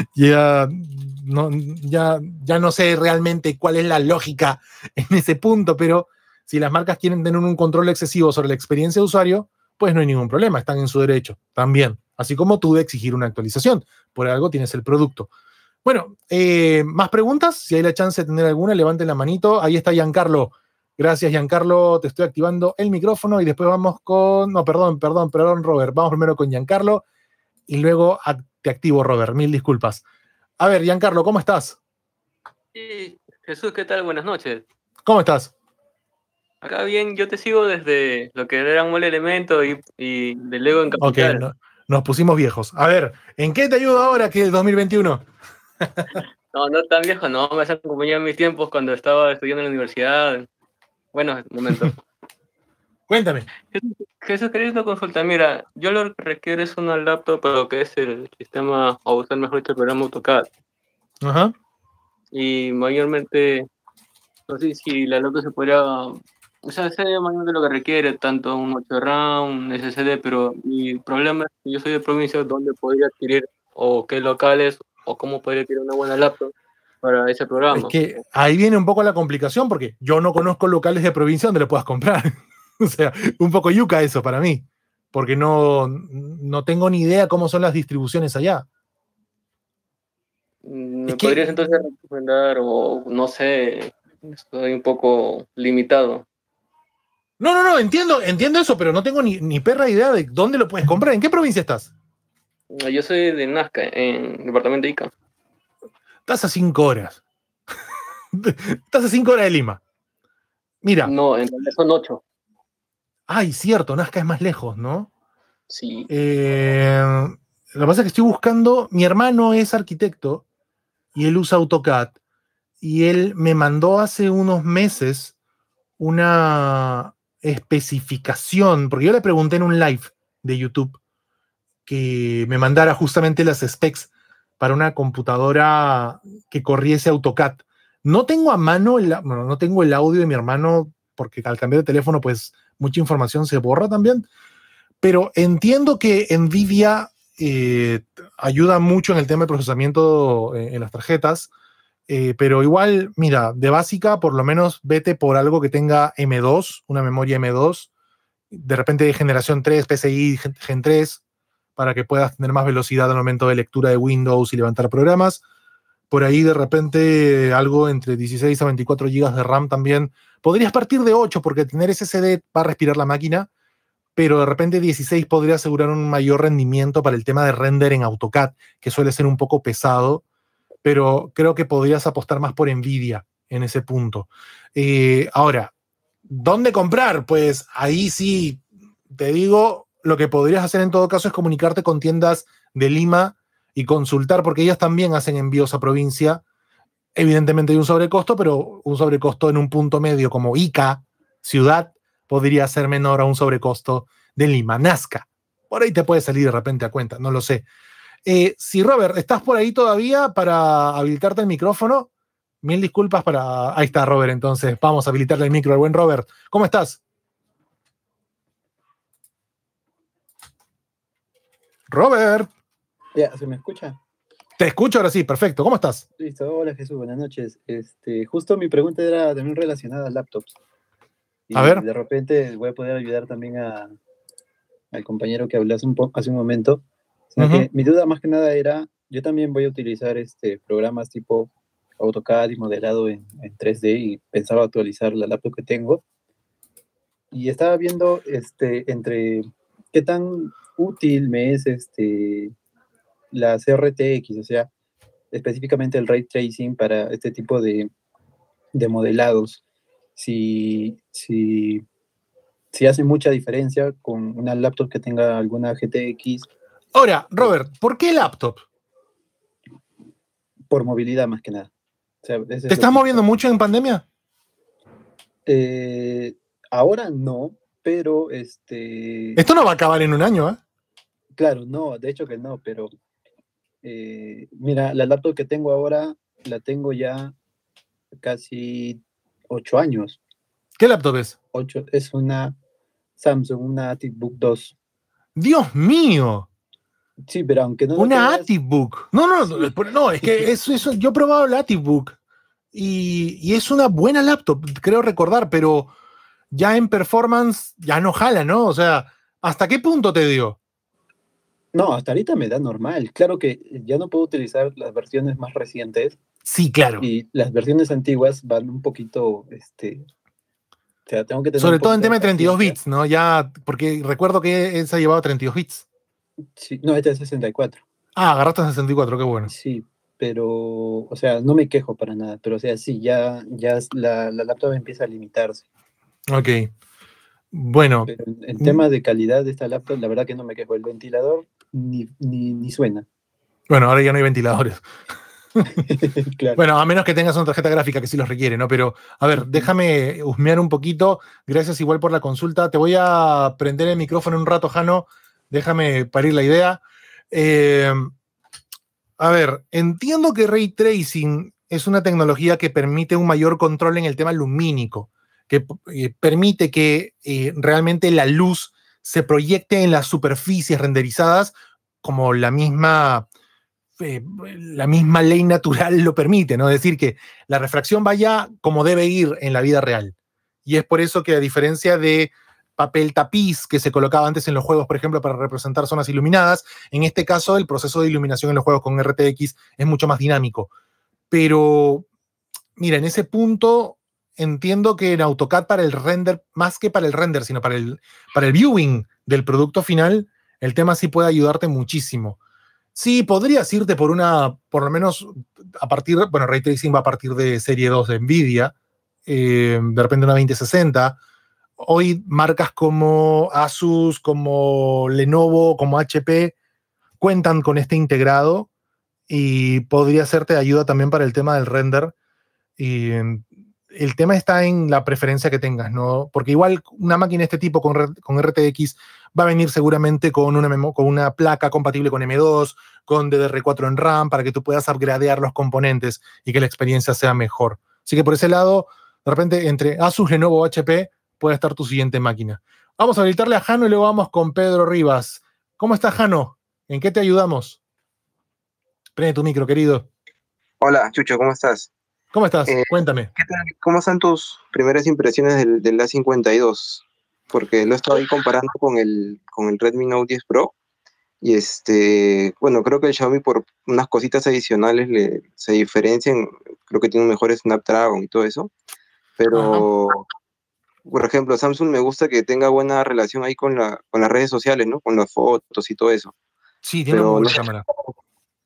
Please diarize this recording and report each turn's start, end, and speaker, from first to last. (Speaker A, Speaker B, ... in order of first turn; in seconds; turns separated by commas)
Speaker A: 0.1-15.3, Speaker A: 15.8-27.0, Speaker A: 27.7-30.0, Speaker A: 30.6-31.8, Speaker B: 32.7-34.6, Speaker A: 35.0-35.5, Speaker B: 36.6-41.4, Speaker A: 41.0-45.2, Speaker B: 46.5-50.5, Speaker B: 51.1-52.0, Speaker A: 53.1-53.5, Speaker B: 53.7-60.5, Speaker A: 61.2-61.5, Speaker B: 62.3-63.7, Speaker B: 64.5-76.5, Speaker B: 77.0-78.0, Speaker A: 77.7-88.7, Speaker B: 90.6-96.2, Speaker A: 91.1-91.7, Speaker A: 97.4-101.9, Speaker B: 102.7-105.1, Speaker A: 106.3-107.2, Speaker A: 108.3-109.8, Speaker A: 110.8-111.1, Speaker B: 111.0-112.2, Speaker A: 113.3-115.1, Speaker B: 115.7-116.1, Speaker A: 116.1-120.4, Speaker A: 121.1-122.1, Speaker A: 122.8-125.3, Speaker A: 126.0-131.0, Speaker A: 131.9-134.1, Speaker A: 134.6-144.2, Speaker A: 145.0-151.5, Speaker A: 152.1-157.9, Speaker A: 158.5-161.2, Speaker A: 161.8-165.4, Speaker A: 166.1-173.5, Speaker A: 174.2-180.2, Speaker A: 180.8-185.7, Speaker A: 186.3-188.6, Speaker A: 189.1-196.4, Speaker A: 197.2-207.6, Speaker A: 208.2-212.1, Speaker A: 212.6-217.0, Speaker A: 221.9-222.5, Speaker C: 223.1-224.0, Speaker A: 224.6-226.0, Speaker C: 226.2-230.5, Speaker C: 231.5-233.9, Speaker A: 231.5-231.8, Speaker C: 234.9-246.0, Speaker A: 237.4-237.7, Speaker C: 247.3-252.5, Speaker C: 253.3-254.7, Speaker C: 255.3-257.9, Speaker C: 258.7-259.6, Speaker C: 260.2-261.8, Speaker C: 262.7-266.5, Speaker A: 266.9-268.6, Speaker C: 270.7-271.7, Speaker C: 272.2-273.2, Speaker A: 272.7-274.0, Speaker C: 275.5-279.4, Speaker A: 279.4-280.6, Speaker C: 281.4-282.9, Speaker C: 283.8-287.3, Speaker C: 288.1-290.2, Speaker A: 290.8-291.3, Speaker C: 291.5-292.6, Speaker C: 293.2-294.7, Speaker A: 295.4-296.5, Speaker C: 297.3-298.5, Speaker A: 298.0-302.1, Speaker A: 302.7-305.9, Speaker A: 306.5-310.6, Speaker C: 311.7-316.2, Speaker A: 316.4-317.0, Speaker C: 317.0-320.1, Speaker C: 321.1-322.8, Speaker A: 321.6-325.8, Speaker C: 326.6-327.8, Speaker A: 328.1-329.5, Speaker C: 329.5-335.6, Speaker A: 336.3-336.7, Speaker A: 337.5-338.8, Speaker C: 338.1-343.0, Speaker A: 343.7-344.8, Speaker C: 345.9-346.6, Speaker A: 346.6-356.8, Speaker C: 349.4-349.7, Speaker A: 357.3-358.1, Speaker A: 359.2-373.2, Speaker A: 374.0-380.1, Speaker A: 380.6-390.7, Speaker A: 391.3-392.0, Speaker A: 392.8-402.4, Speaker A: 402.9-408.7, Speaker A: 409.3-411.2, Speaker A: 411.8-416.5, Speaker A: 417.2-418.7, Speaker A: 419.3-422.1, Speaker A: 422.8-447.8, Speaker A: 449.2-450.1, Speaker D: 450.8-451.9, Speaker A: 452.3-453.3, Speaker D: 452.7-460.7, Speaker D: 461.4-468.7, Speaker D: 469.4-470.2, Speaker A: 469.5-469.9, Speaker D: 471.1-476.3, Speaker A: 476.8-477.9, Speaker D: 477.1-477.7